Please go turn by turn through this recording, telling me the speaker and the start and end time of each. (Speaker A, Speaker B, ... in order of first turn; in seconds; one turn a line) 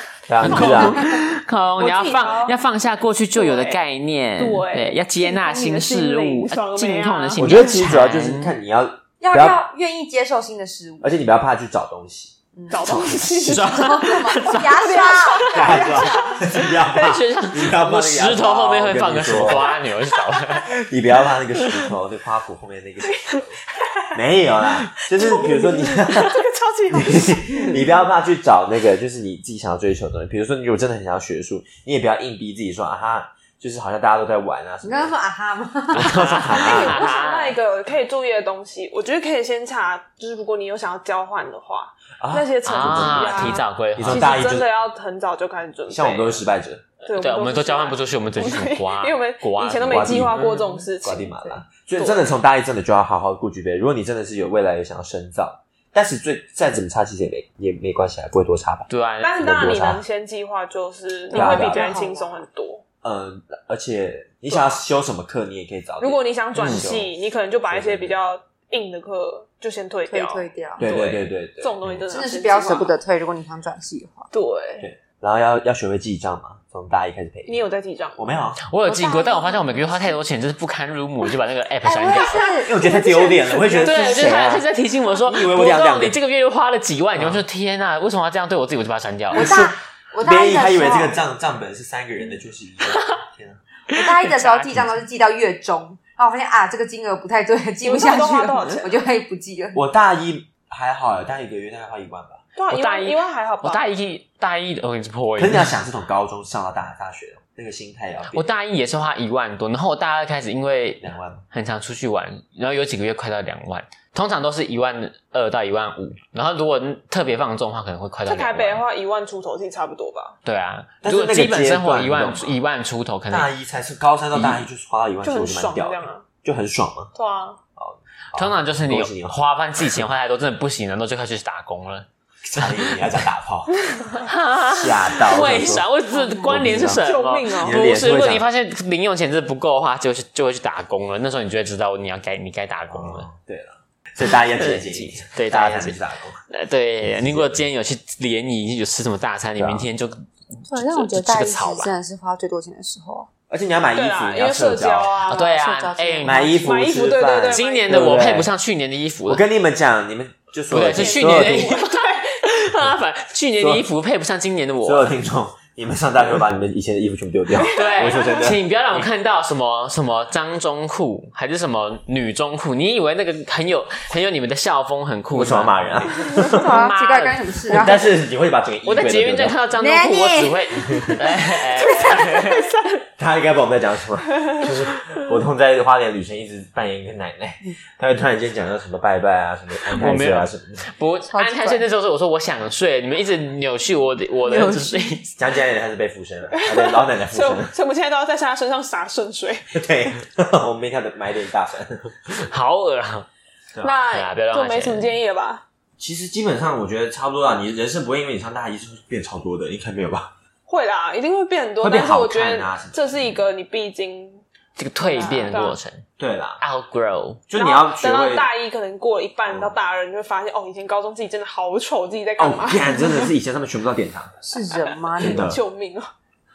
Speaker A: 0.3-1.0
Speaker B: 0.4-8.5
Speaker C: 0.5-1.0
Speaker C: 1.8-2.5
Speaker C: 3.3-3.8
Speaker C: 4.3-7.7
Speaker A: 7.4-9.6
Speaker D: 9.2-11.1
Speaker A: 11.0-12.3
Speaker D: 12.5-16.4
Speaker C: 12.7-13.8
Speaker A: 12.9-13.3
Speaker B: 12.9-15.0
Speaker C: 14.5-16.3
Speaker A: 15.5-19.8
Speaker B: 16.6-20.7
Speaker C: 20.3-20.6
Speaker A: 20.6-23.6
Speaker C: 23.0-24.0
Speaker A: 24.1-26.3
Speaker C: 25.1-27.4
Speaker A: 26.9-35.1
Speaker D: 34.8-36.2
Speaker A: 35.9-37.0
Speaker B: 36.1-37.5
Speaker C: 36.5-46.4
Speaker A: 42.2-44.7
Speaker B: 42.6-44.4
Speaker A: 45.9-46.8
Speaker B: 47.0-50.7
Speaker C: 47.0-52.4
Speaker A: 49.8-50.5
Speaker A: 51.0-58.9
Speaker B: 58.9-59.4
Speaker C: 59.2-62.8
Speaker A: 59.4-60.0
Speaker D: 61.3-62.5
Speaker A: 61.3-61.9
Speaker A: 63.0-67.2
Speaker C: 64.5-64.8
Speaker C: 66.0-73.0
Speaker B: 66.6-66.8
Speaker A: 67.7-68.2
Speaker D: 70.1-70.8
Speaker A: 70.8-72.0
Speaker D: 72.1-74.3
Speaker C: 74.3-74.8
Speaker A: 74.8-77.6
Speaker C: 77.5-78.3
Speaker A: 78.2-78.6
Speaker B: 78.6-82.5
Speaker D: 78.8-80.2
Speaker D: 81.8-84.4
Speaker A: 82.4-84.7
Speaker B: 83.8-89.5
Speaker A: 85.2-86.2
Speaker A: 87.2-87.4
Speaker D: 89.3-91.2
Speaker A: 89.4-89.7
Speaker A: 90.2-93.6
Speaker D: 93.9-99.8
Speaker B: 93.9-94.8
Speaker C: 97.8-98.9
Speaker A: 99.7-102.4
Speaker C: 102.5-103.8
Speaker B: 102.7-105.7
Speaker A: 105.4-108.5
Speaker B: 108.3-118.8
Speaker A: 111.0-111.4
Speaker C: 118.2-120.4
Speaker B: 120.4-123.5
Speaker A: 121.0-122.6
Speaker A: 123.3-127.1
Speaker B: 124.3-124.6
Speaker C: 125.2-126.3
Speaker C: 127.1-127.6
Speaker A: 127.8-130.0
Speaker B: 128.3-132.1
Speaker A: 132.4-133.9
Speaker B: 132.6-132.9
Speaker B: 134.2-143.3
Speaker A: 134.7-135.9
Speaker D: 136.1-136.5
Speaker A: 136.4-137.1
Speaker C: 136.9-137.8
Speaker A: 137.6-138.5
Speaker A: 142.9-146.4
Speaker B: 144.2-146.0
Speaker B: 146.5-151.9
Speaker A: 147.1-147.6
Speaker A: 149.6-149.9
Speaker D: 150.7-153.3
Speaker A: 153.5-155.2
Speaker C: 153.9-155.5
Speaker B: 155.3-156.5
Speaker D: 155.3-156.5
Speaker A: 156.2-158.5
Speaker C: 156.6-158.1
Speaker B: 157.5-159.4
Speaker A: 159.2-161.7
Speaker B: 160.7-165.1
Speaker C: 160.8-162.2
Speaker A: 163.6-163.8
Speaker A: 164.8-169.1
Speaker C: 167.6-168.6
Speaker B: 167.7-177.4
Speaker A: 175.3-176.7
Speaker D: 176.5-178.1
Speaker A: 177.7-179.6
Speaker B: 178.8-182.7
Speaker D: 179.8-182.5
Speaker A: 183.2-190.8
Speaker B: 189.9-195.3
Speaker D: 191.2-191.8
Speaker D: 194.4-195.2
Speaker A: 195.4-197.7
Speaker C: 196.5-199.7
Speaker A: 199.7-202.3
Speaker B: 202.3-203.3
Speaker C: 203.8-205.6
Speaker B: 204.1-205.1
Speaker A: 206.0-210.3
Speaker C: 210.7-214.4
Speaker A: 211.8-213.0
Speaker B: 214.8-216.0
Speaker C: 215.1-215.8
Speaker D: 215.1-215.4
Speaker A: 216.2-216.6
Speaker B: 216.6-217.4
Speaker A: 217.5-218.5
Speaker C: 217.5-223.3
Speaker A: 219.5-219.7
Speaker A: 222.4-224.4
Speaker D: 224.4-225.5
Speaker A: 225.2-225.6
Speaker C: 225.2-226.1